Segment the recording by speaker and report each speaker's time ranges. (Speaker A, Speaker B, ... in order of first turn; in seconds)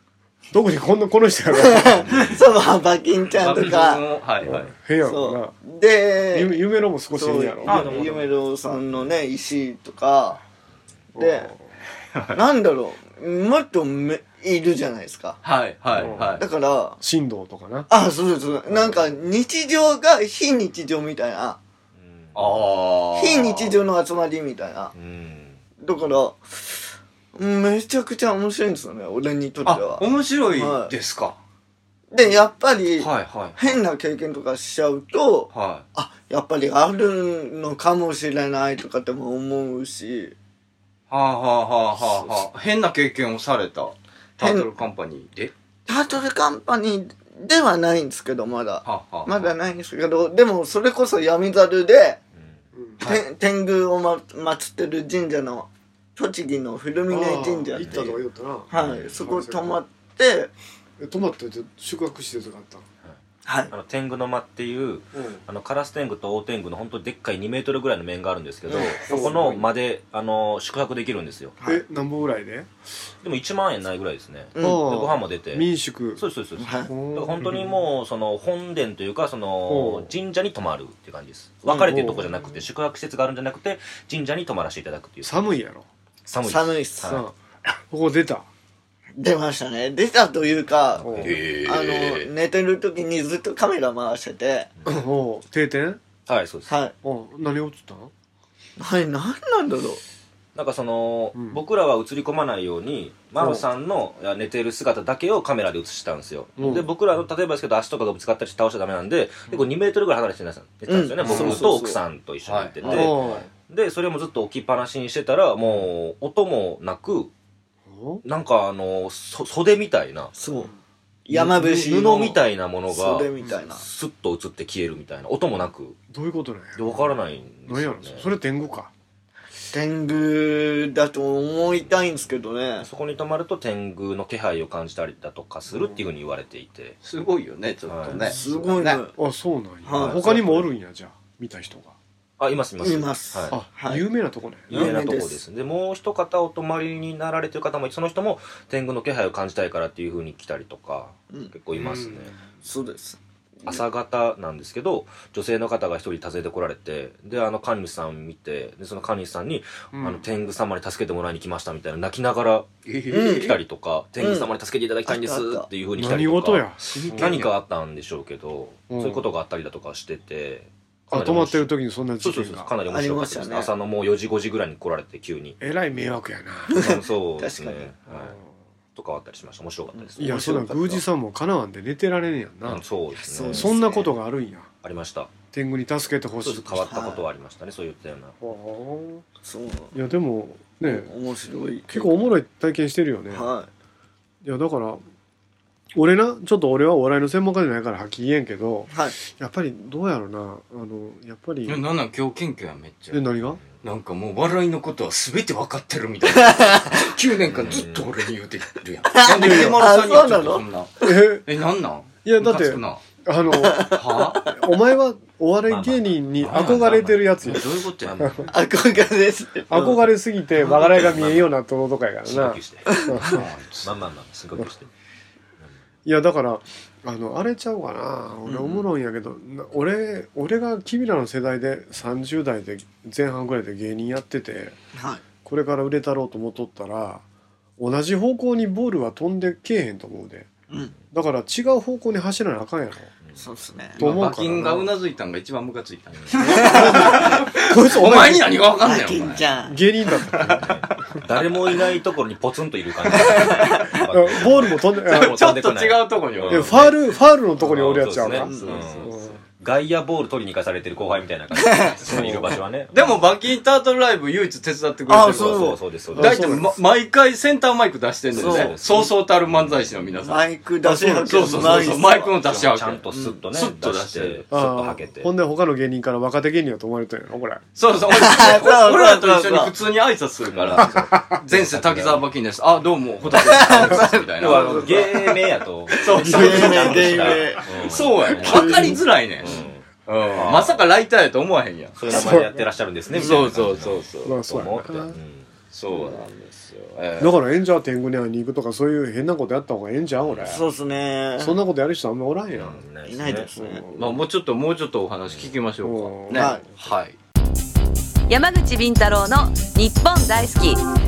Speaker A: 0.5-2.3, 4.4-5.6, 6.3-7.8, 11.2-11.6, 15.9-16.4, 17.0-17.9, 52.7-53.0, 57.1-59.8, 61.0-62.9, 65.1-65.4, 69.1-69.7, 71.7-72.7, 74.6-76.2, 76.9-77.8, 79.7-80.1, 81.7-82.4, 85.2-85.9, 87.1-87.4, 87.9-88.5, 91.0-91.3, 94.9-96.0, 97.0-98.1, 101.3-101.6, 103.4-103.7, 106.6-106.9, 112.9-113.5, 117.9-118.2, 126.1-128.9, 135.7-136.0, 139.2-142.0, 143.5-144.8, 151.8-152.4, 159.9-160.2, 166.0-167.3, 168.9-169.3, 171.1-172.7, 175.6-176.8, 178.1-178.5, 180.2-182.8, 183.5-184.7, 185.5-186.8, 188.4-189.2, 189.9-191.1, 191.9-193.5, 194.4-195.0, 195.9-201.8, 203.1-203.6, 209.3-209.8, 211.0-211.4, 212.2-214.0, 214.5-217.6, 218.2-218.4, 219.7-223.5, 226.1-234.8, 235.4-237.2, 237.8-240.5, 241.1-243.1, 244.0-244.9, 246.6-248.6, 249.7-250.7, 254.1-255.5, 256.5-259.4, 262.1-262.6, 266.1-266.8, 270.8-271.8, 274.5-277.6, 280.9-281.4, 286.2-287.2, 288.3-289.0, 292.1-292.7, 294.3-295.2, 297.2-300.6, 301.4-302.8, 303.6-304.2, 305.8-306.6
Speaker B: 1.5-4.0, 5.0-6.6, 7.1-10.4, 11.2-11.5, 12.3-15.4, 16.4-17.0, 17.9-21.6, 23.2-24.9, 25.8-26.8, 27.4-30.9, 32.1-40.4, 44.4-44.7, 45.9-52.2, 53.1-58.2, 58.7-60.5, 63.5-63.7, 68.7-69.3, 74.6-74.9, 76.6-76.9, 86.5-87.2, 89.2-91.1, 91.7-94.7, 96.7-96.9, 98.8-100.0, 110.9-112.0, 120.4-120.7, 121.3-122.4, 122.9-123.8, 129.7-132.9, 138.2-139.1, 139.8-140.3, 142.8-144.0, 144.7-145.4, 152.6-153.8, 163.1-163.6, 164.2-164.5, 165.1-165.7, 172.9-173.7, 176.7-177.9, 180.0-180.3, 183.1-184.1, 186.9-187.2, 189.4-189.9, 190.8-192.3, 193.3-193.7, 198.9-199.2, 206.4-206.9, 209.1-211.1, 213.6-214.3, 218.5-220.1, 228.5-228.9, 235.0-235.2, 240.7-241.0, 243.4-244.0, 246.3-247.4, 248.8-249.8, 253.1-253.8, 258.4-258.9, 261.6-262.6, 265.1-265.8, 268.4-268.8, 270.3-272.4, 273.1-273.4, 278.1-279.7, 283.4-285.1, 286.2-287.6, 300.5-301.6, 303.1-303.8, 306.3-306.6
Speaker C: 3.4-4.7, 12.1-12.4, 15.4-16.4, 22.4-23.8, 29.6-31.4, 33.0-33.8, 35.5-35.9, 41.1-45.5, 48.8-49.5, 91.2-92.3, 111.2-111.8, 112.5-113.2, 137.0-139.0, 162.8-163.6, 166.9-167.5, 201.7-203.2, 203.8-213.0, 213.9-214.5, 216.4-218.4, 223.3-223.9, 244.0-249.5, 250.2-250.9, 253.4-253.7, 255.1-257.0, 258.4-259.3, 262.9-270.4, 271.0-274.5, 277.8-292.2, 293.1-294.4, 295.7-297.4, 303.9-307.2
Speaker D: 7.7-8.3, 22.0-22.6, 24.9-25.6, 58.7-59.2, 63.7-71.6, 73.2-85.6, 86.3-87.2, 90.9-91.5, 96.3-96.8, 100.5-117.3, 118.2-120.3, 121.3-126.0, 126.8-128.3, 132.8-137.0, 137.9-138.4, 139.9-140.7, 142.4-143.6, 144.7-152.3, 153.7-175.6, 176.8-178.4, 179.0-181.0, 182.7-183.7, 184.8-185.3, 186.4-188.4, 207.5-208.1, 215.7-218.7, 220.6-221.6, 222.2-224.9, 250.4-256.9, 257.6-263.1, 265.1-266.6, 268.3-270.0, 272.4-275.3, 280.5-282.3, 283.2-290.8, 292.0-295.5, 300.2-300.5, 302.5-303.5, 305.3-305.5
Speaker E: 308.3-310.9